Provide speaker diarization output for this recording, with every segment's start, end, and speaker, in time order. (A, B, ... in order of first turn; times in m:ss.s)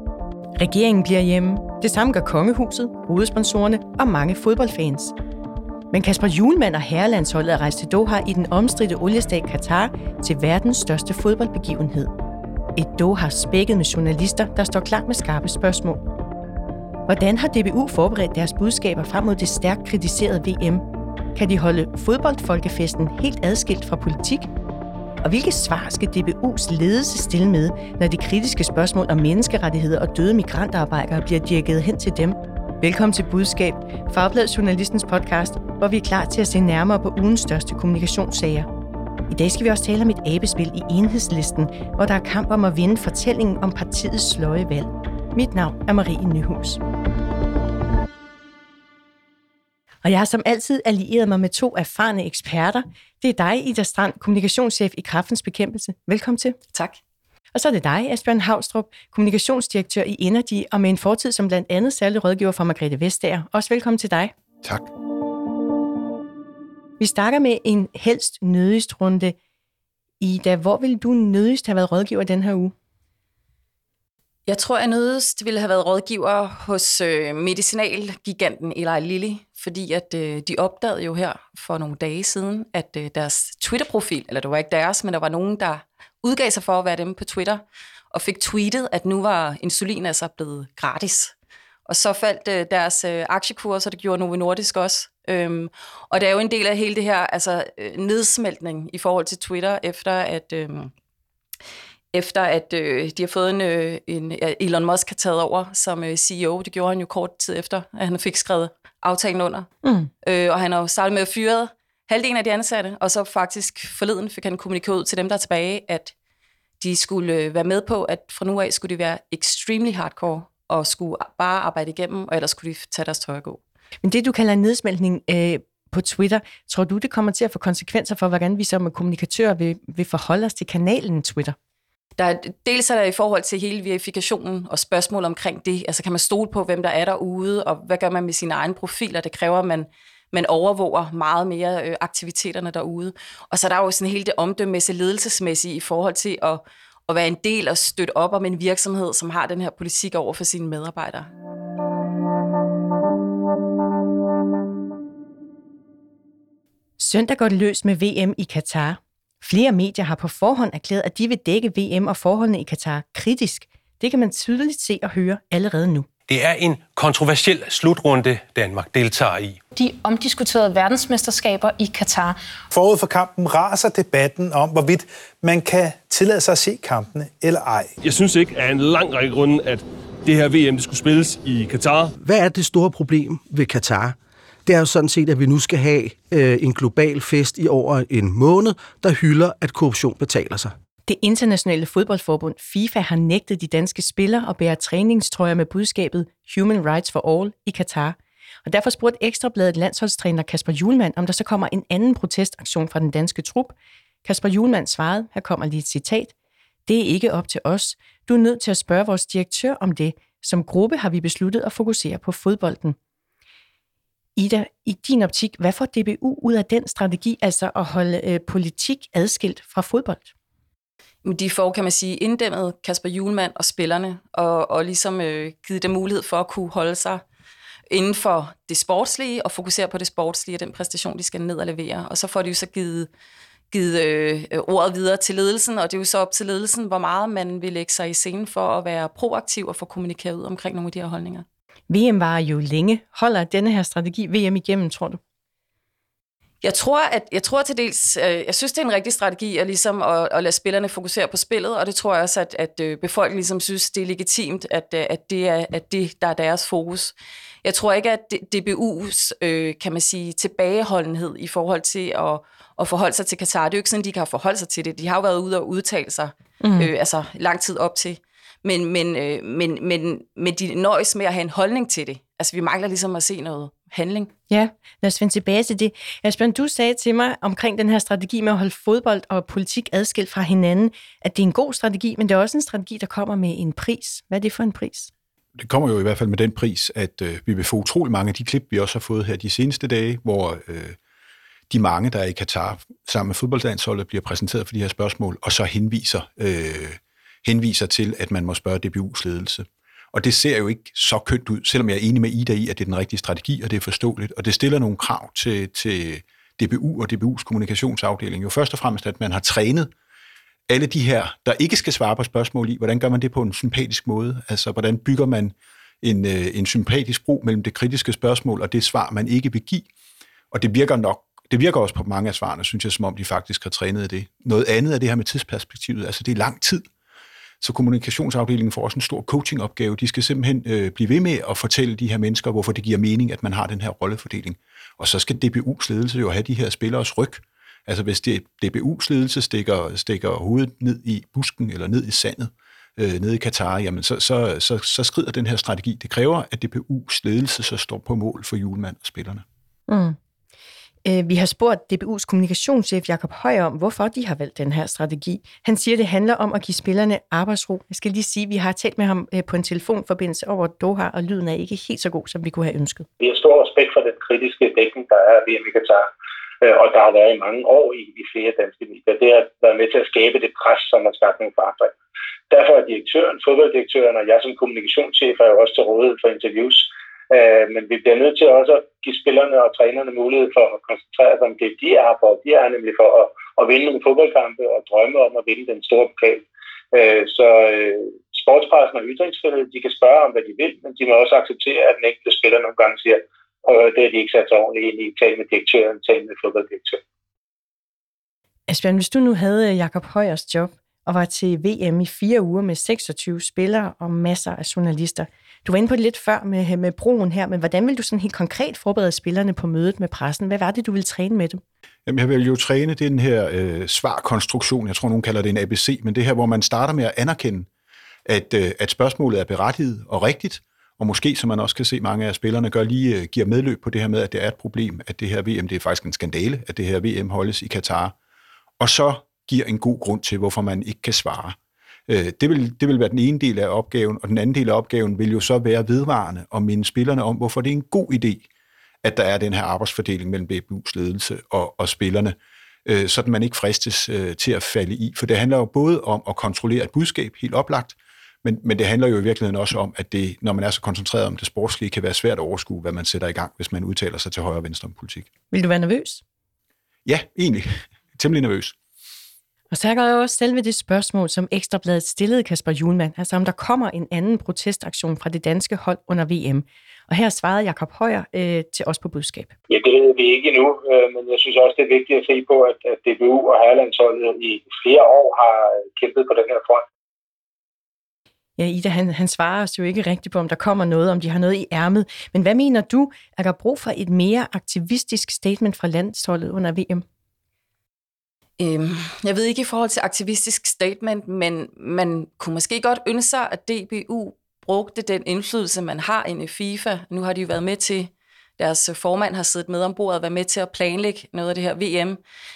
0:00.6-0:05.1 A
0:05.9-0:12.1 A
0:12.8-0:16.0 A
0:17.1-0:20.8 A
0:21.3-0:24.5 A
0:25.2-0:38.7 A
0:39.3-0:46.8 A
0:50.0-0:56.6 A
0:56.7-0:57.0 B
0:57.5-1:04.3 A
1:04.6-1:04.9 C
1:07.0-1:09.3 A
1:10.2-1:12.7 A
1:14.5-1:31.3 B
1:31.9-1:40.9 B
1:42.1-1:49.7 B
1:49.8-1:50.1 A
1:50.2-1:56.1 B
1:56.8-2:03.6 B
2:04.0-2:11.5 A
2:12.2-2:31.3 B
2:37.0-2:46.1 A
2:46.3-2:49.6 D
2:49.7-2:52.4 E
2:52.7-2:57.9 F
2:58.0-3:02.1 G
3:02.2-3:10.7 H
3:11.1-3:26.3 A
3:26.8-3:33.0 A
3:34.4-3:40.3 A
3:41.2-3:47.2 B
3:47.9-3:53.1 B
3:53.7-4:01.4 B
4:01.9-4:05.2 A
4:06.6-4:34.3 B
4:26.6-4:26.9 A
4:34.5-4:45.1 A
4:45.6-4:51.0 C
4:51.7-5:09.9 C
5:10.7-5:19.8 C
5:20.5-5:26.8 C
5:27.6-5:49.4 C
5:49.9-5:50.2 A
5:51.0-6:03.1 A
6:03.2-6:06.1 I
6:06.6-6:11.9 I
6:12.5-6:37.0 I
6:38.7-6:51.6 A
6:52.0-6:57.7 C
6:58.2-7:08.1 C
7:08.8-7:11.6 C
7:12.1-7:18.4 C
7:19.0-7:22.3 C
7:22.8-7:35.3 C
7:35.5-7:36.2 A
7:37.0-7:38.8 C
7:39.7-7:49.5 A
7:49.7-7:56.8 I
7:58.6-8:07.0 A
8:08.6-8:22.2 B